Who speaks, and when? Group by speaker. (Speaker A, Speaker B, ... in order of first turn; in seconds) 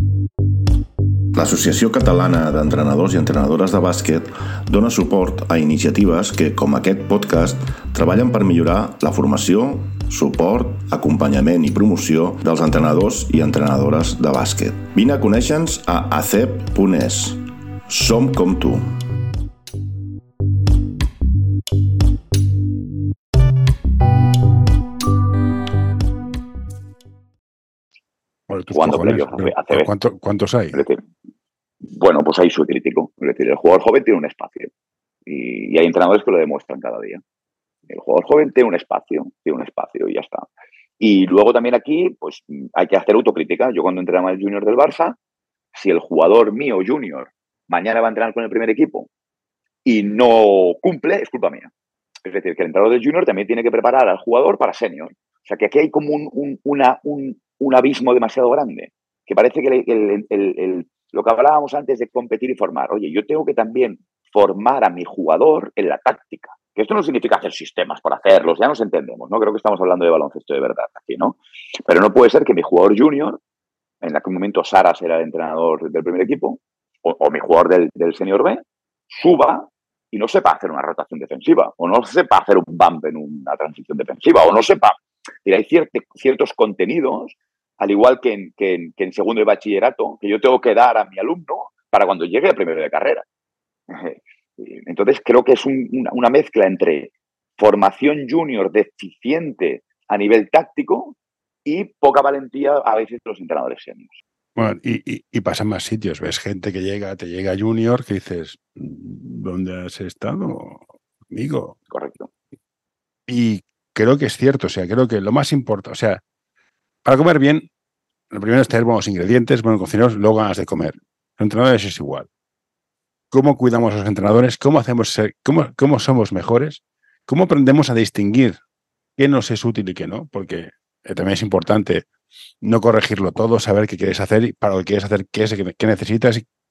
Speaker A: 1.4-18.9
Speaker B: 28.5-30.8, 104.6-111.8, 113.3-116.2, 117.0-117.7, 118.3-122.3, 123.3-128.6, 129.2-132.1, 132.6-136.4
Speaker C: 28.7-29.9, 30.7-31.0, 31.8-34.7, 35.3-37.2, 37.9-40.5, 41.0-45.2, 45.7-49.1, 49.9-51.7, 52.2-73.4, 74.0-93.2, 93.9-104.1, 111.9-112.3